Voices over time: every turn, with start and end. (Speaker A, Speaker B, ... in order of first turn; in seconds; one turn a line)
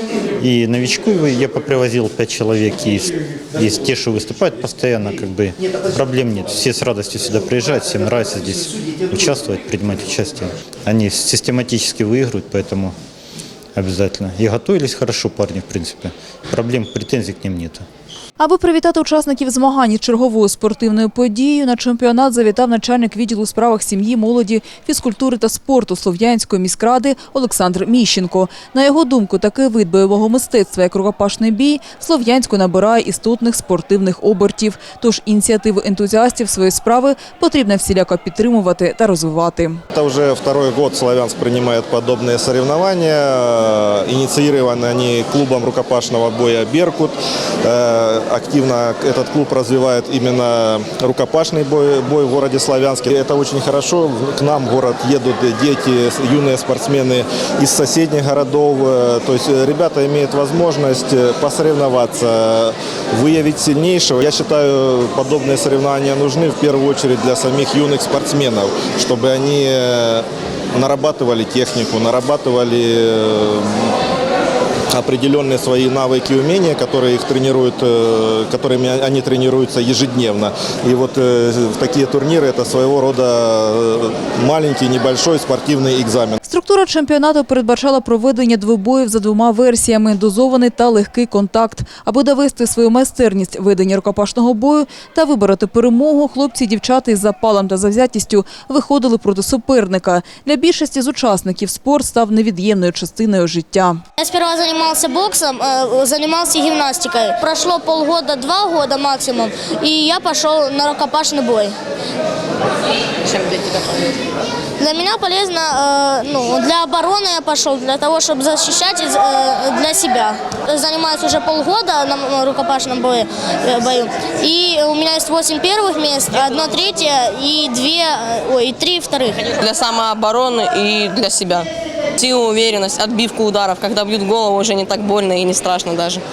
Speaker A: 0.4-12.9
Speaker A: 13.7-17.9
Speaker B: 18.4-39.8
Speaker C: 39.9-73.9
Speaker C: 74.9-86.4
Speaker B: 86.4-104.0
Speaker D: 104.2-111.7
Speaker E: 113.3-113.8
Speaker D: 114.8-129.5
Speaker E: 129.5-136.2